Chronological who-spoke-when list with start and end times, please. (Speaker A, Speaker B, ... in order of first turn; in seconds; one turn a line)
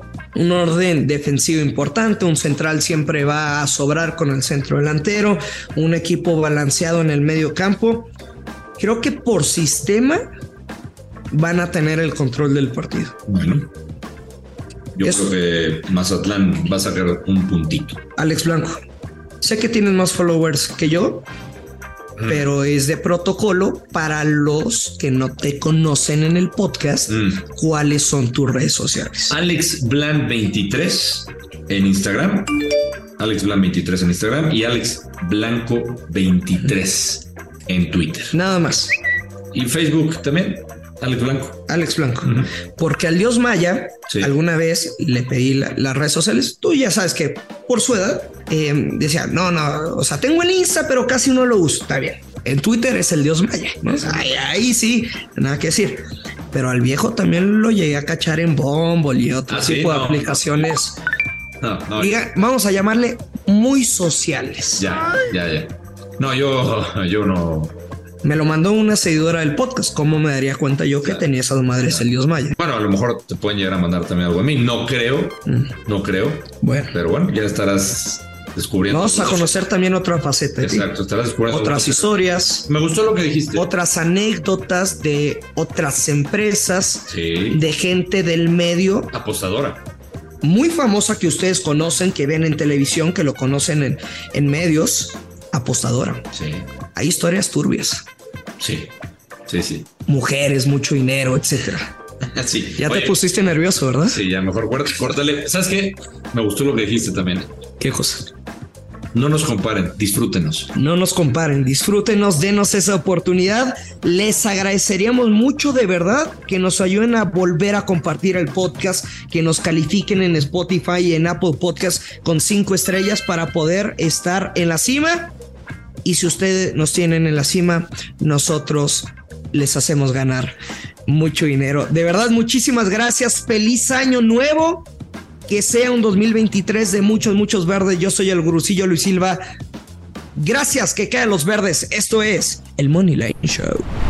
Speaker A: 0.3-8.1
Speaker A: 8.8-10.2
Speaker A: 11.3-13.2
Speaker B: 13.3-13.7
Speaker B: 14.9-18.0
Speaker A: 15.0-15.3
Speaker A: 18.2-18.8
Speaker A: 19.4-21.3
Speaker B: 22.2-22.5
Speaker A: 22.3-29.4
Speaker B: 27.1-27.4
Speaker B: 29.3-32.5
Speaker B: 33.2-38.3
Speaker A: 38.3-39.0
Speaker B: 39.5-41.6
Speaker A: 41.7-61.0
Speaker B: 42.2-42.5
Speaker B: 53.9-54.3
Speaker B: 59.5-60.5
Speaker B: 61.6-62.2
Speaker A: 62.0-64.9
Speaker B: 64.8-67.8
Speaker A: 68.2-72.5
Speaker B: 72.6-79.6
Speaker A: 76.6-77.0
Speaker A: 78.9-80.9
Speaker B: 80.6-83.7
Speaker A: 81.5-82.7
Speaker A: 83.5-89.1
Speaker B: 87.1-87.6
Speaker B: 89.1-89.8
Speaker A: 90.4-96.2
Speaker B: 96.3-96.7
Speaker A: 97.0-98.1
Speaker B: 98.6-98.9
Speaker B: 99.5-99.9
Speaker A: 100.1-101.9
Speaker B: 102.3-103.2
Speaker A: 102.8-104.2
Speaker B: 104.0-107.5
Speaker A: 107.8-108.3
Speaker B: 109.1-110.7
Speaker A: 110.7-125.3
Speaker A: 126.0-130.6
Speaker A: 131.1-134.9
Speaker A: 135.5-139.4
Speaker A: 140.3-143.9